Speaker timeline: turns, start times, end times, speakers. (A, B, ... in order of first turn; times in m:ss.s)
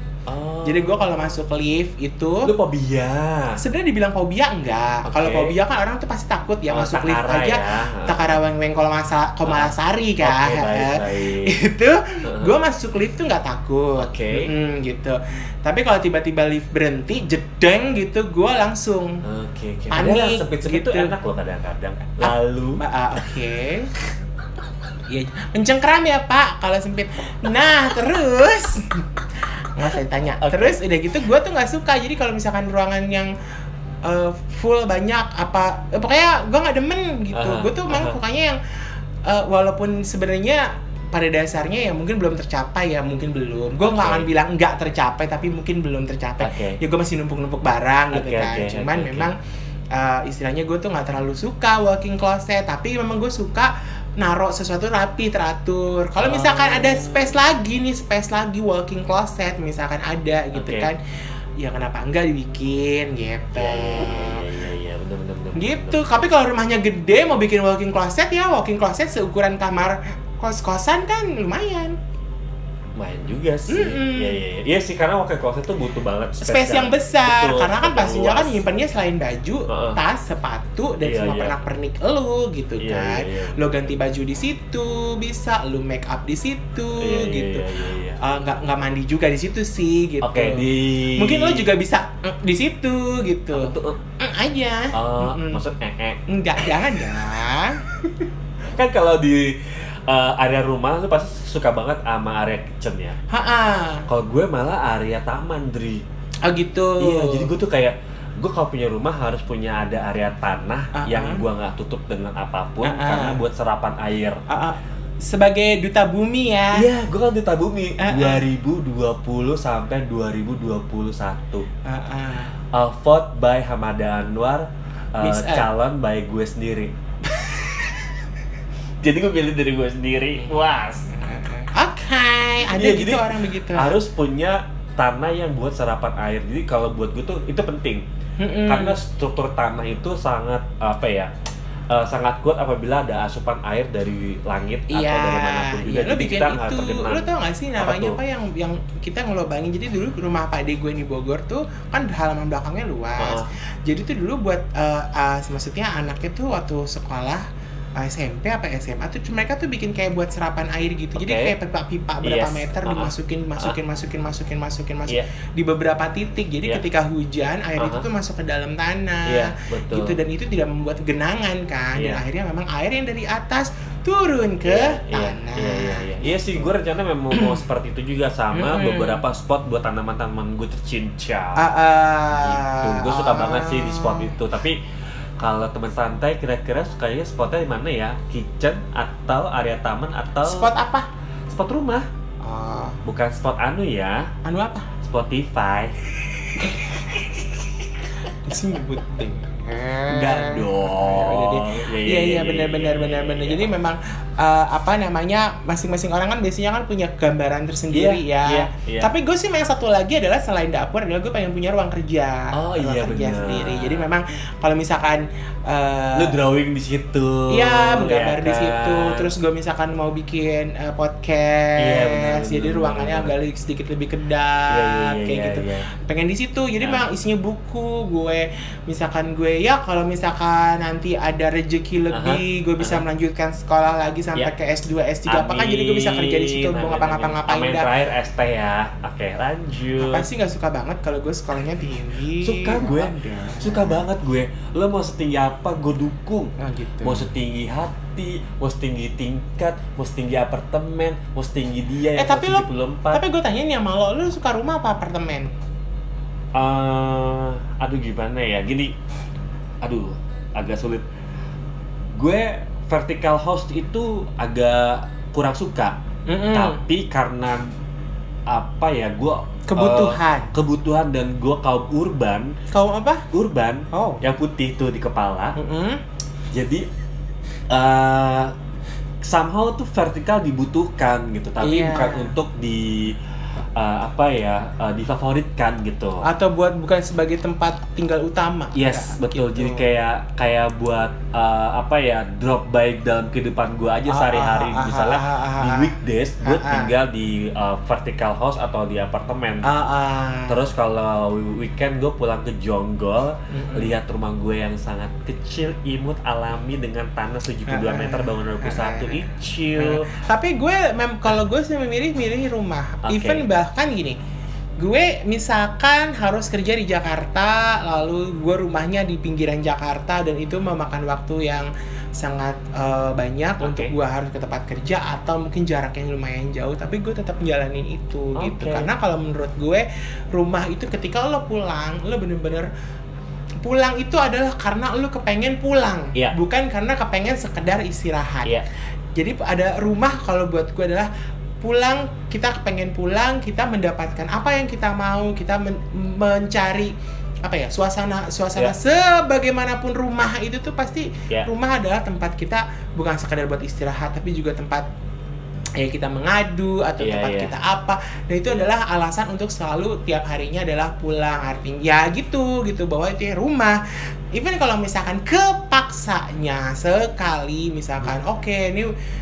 0:00.3-0:01.4 A
0:00.6-0:02.5 B
0:02.4-0:03.6 A
0:03.6-0:19.2 B
0:05.0-0:05.6 A
0:06.7-0:08.4 A
0:09.4-0:11.6 A
0:12.2-0:12.5 A
0:14.0-0:14.5 A
0:19.2-0:22.8 A
0:19.9-0:21.1 B
0:22.2-0:23.9 B
0:25.1-0:29.1 B
0:29.6-0:33.3 B
0:30.4-0:30.8 A
0:34.0-0:38.6 B
0:37.3-0:38.2 A
0:39.3-0:49.4 B
0:43.8-0:44.3 A
0:46.4-0:46.8 A
0:48.1-0:49.3 A
0:49.9-1:01.0 B
0:56.2-0:57.3 A
1:00.5-1:00.9 A
1:01.6-1:04.4 B
1:03.6-1:06.3 A
1:05.6-1:12.0 B
1:13.0-1:18.6 A
1:13.7-1:14.4 B
1:16.4-1:27.7 B
1:19.7-1:20.0 A
1:21.0-1:21.6 A
1:22.8-1:23.8 A
1:27.0-1:28.2 A
1:28.2-1:35.6 B
1:30.2-1:31.7 A
1:33.5-1:34.0 A
1:34.9-1:36.2 A
1:36.3-1:38.0 B
1:38.7-1:43.2 A
1:43.3-1:44.1 B
1:44.1-1:46.0 A
1:46.4-1:47.5 B
1:47.0-1:54.4 A
1:50.9-1:51.4 B
1:52.8-1:53.4 B
1:54.5-1:56.9 B
1:56.7-2:01.7 A
1:58.0-1:58.5 B
2:01.8-2:02.5 B
2:02.7-2:07.8 A
2:05.2-2:05.7 B
2:09.0-2:11.1 A
2:11.1-2:14.0 B
2:12.6-2:18.0 A
2:18.4-2:19.0 B
2:18.7-2:21.3 A
2:21.9-2:28.2 A
2:24.9-2:37.4 B
2:33.2-2:33.5 A
2:38.0-2:56.1 B
2:41.2-2:41.5 A
2:42.2-2:43.8 A
2:47.8-2:48.0 A
2:49.3-2:50.2 A
2:52.0-2:52.2 A
2:54.6-3:01.7 A
2:57.3-2:57.6 B
2:58.5-2:59.2 B
3:01.6-3:04.4 B
3:02.3-3:04.8 A
3:05.4-3:10.7 A
3:10.4-3:11.1 B
3:11.5-3:12.1 A
3:12.4-3:13.0 B
3:13.0-3:14.3 A
3:14.4-3:14.9 B
3:15.0-3:16.0 A
3:16.6-3:17.3 B
3:18.3-3:36.4 B
3:20.1-3:23.7 A
3:27.9-3:29.1 A
3:32.5-3:34.1 A
3:36.1-3:39.3 A
3:37.5-3:57.9 B
3:41.8-3:43.3 A
3:44.7-3:45.9 A
3:52.1-3:53.0 A
3:55.3-4:00.3 A
4:00.0-4:04.1 B
4:02.4-4:13.2 A
4:06.6-4:07.3 B
4:12.2-4:15.5 B
4:16.6-4:19.0 A
4:19.8-4:21.0 A
4:22.1-4:26.0 A
4:26.3-4:26.8 B
4:26.5-4:27.7 A
4:28.5-4:32.6 A
4:29.7-4:30.5 B
4:32.7-4:33.3 B
4:33.3-4:35.6 A
4:33.9-4:34.2 B
4:35.6-4:36.0 B
4:36.5-4:36.9 A
4:37.7-4:38.5 A
4:39.2-4:43.2 A
4:41.6-4:42.3 B
4:43.8-4:46.2 A
4:46.2-4:49.9 B
4:48.8-4:59.7 A
4:54.1-4:56.9 B
4:59.6-5:00.6 B
5:00.5-5:10.1 A
5:03.5-5:04.0 B
5:07.7-5:14.2 B
5:13.0-5:13.5 A
5:14.8-5:32.7 B
5:23.6-5:23.9 A
5:28.4-5:28.9 A
5:33.6-5:38.5 B
5:39.1-5:41.1 B
5:41.6-5:46.9 B
5:47.4-5:54.9 B
5:55.8-6:08.9 B
5:57.0-5:57.5 A